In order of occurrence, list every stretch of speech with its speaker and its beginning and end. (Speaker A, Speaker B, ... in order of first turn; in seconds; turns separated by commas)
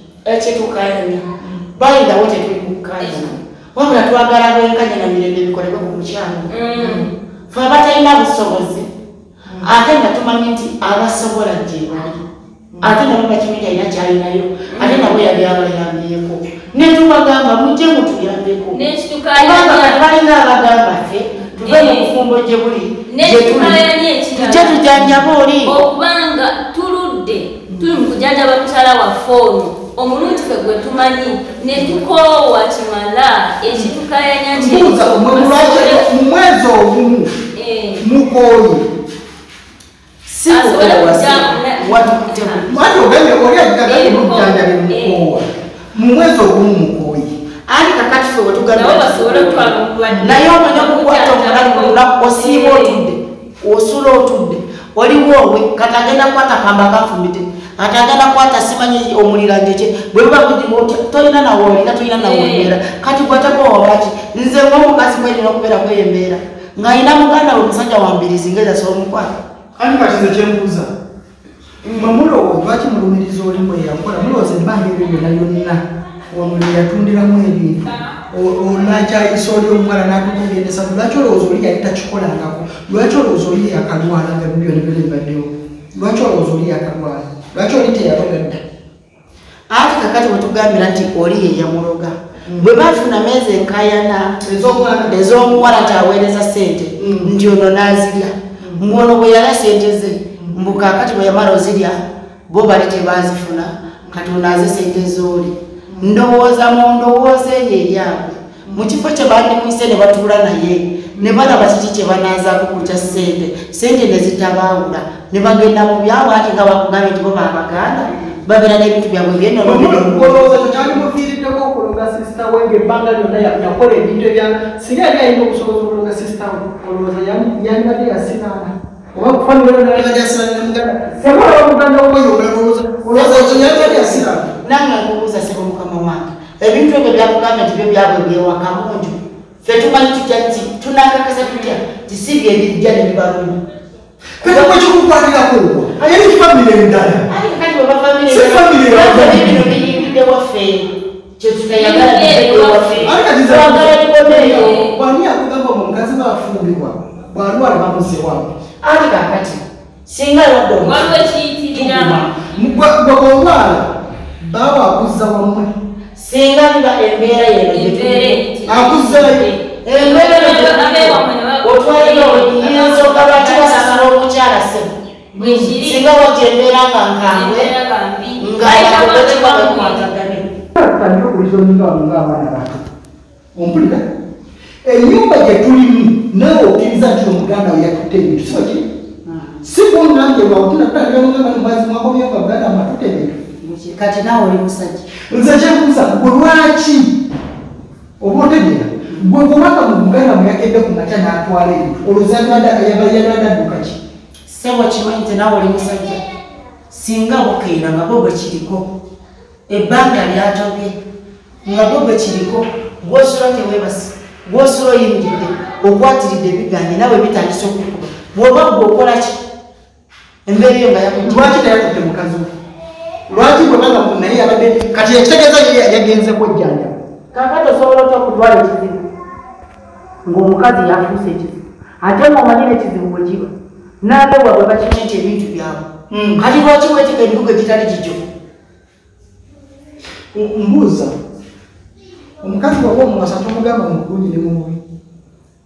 Speaker A: 0.2-1.2, Speaker A: 1.8-6.5, Speaker B: 3.0-3.3, Speaker B: 6.5-7.1, Speaker C: 6.8-7.1, Speaker A: 7.5-8.9, Speaker A: 9.6-12.2, Speaker A: 12.8-18.8, Speaker B: 14.7-15.2, Speaker B: 18.7-20.0, Speaker A: 19.4-23.8, Speaker C: 21.4-21.7, Speaker B: 21.6-22.1, Speaker B: 23.1-24.9, Speaker A: 24.4-25.8, Speaker C: 24.9-25.2, Speaker B: 25.6-36.0, Speaker C: 27.7-28.0, Speaker C: 34.5-37.3, Speaker B: 37.5-38.0, Speaker C: 38.0-38.9, Speaker A: 40.3-42.7, Speaker B: 40.5-42.6, Speaker C: 42.7-47.3, Speaker B: 43.9-45.2, Speaker A: 47.7-69.3, Speaker B: 48.7-53.0, Speaker B: 62.1-62.7, Speaker C: 69.8-70.9, Speaker B: 71.8-72.2, Speaker C: 71.9-88.6, Speaker A: 89.7-102.0, Speaker C: 92.4-92.7, Speaker C: 94.4-95.2, Speaker B: 95.5-96.0, Speaker C: 97.0-97.3, Speaker C: 98.6-98.9, Speaker C: 100.4-100.7, Speaker A: 102.5-121.0, Speaker C: 105.9-106.2, Speaker C: 108.7-108.9, Speaker C: 111.1-111.6, Speaker C: 112.8-113.3, Speaker C: 119.6-134.6, Speaker A: 133.1-143.6, Speaker B: 141.5-141.7, Speaker C: 144.4-147.2, Speaker A: 144.4-144.8, Speaker A: 147.3-150.9, Speaker C: 148.3-149.9, Speaker A: 151.4-154.6, Speaker B: 151.7-153.2, Speaker C: 153.0-158.5, Speaker B: 154.4-154.9, Speaker A: 158.8-161.2, Speaker B: 160.8-162.3, Speaker C: 161.7-165.7, Speaker A: 166.2-168.4, Speaker B: 167.7-174.1, Speaker C: 168.7-169.5, Speaker A: 169.8-174.9, Speaker C: 175.3-175.7, Speaker B: 175.4-176.2, Speaker A: 175.7-177.7, Speaker B: 177.3-180.1, Speaker A: 178.4-180.5, Speaker C: 180.7-182.9, Speaker C: 183.5-184.1, Speaker C: 184.8-188.9, Speaker A: 189.2-189.6, Speaker C: 189.6-193.4, Speaker A: 193.6-195.1, Speaker C: 195.3-197.2, Speaker C: 198.2-204.0, Speaker A: 204.5-206.2, Speaker A: 206.9-208.9, Speaker A: 209.7-210.9, Speaker A: 211.6-219.4, Speaker A: 220.5-221.5, Speaker C: 221.2-222.5, Speaker C: 223.3-226.9, Speaker A: 227.3-229.0, Speaker A: 230.2-233.5, Speaker A: 234.0-235.8, Speaker C: 236.1-236.4, Speaker A: 236.4-238.2, Speaker C: 240.3-241.1, Speaker C: 242.4-244.8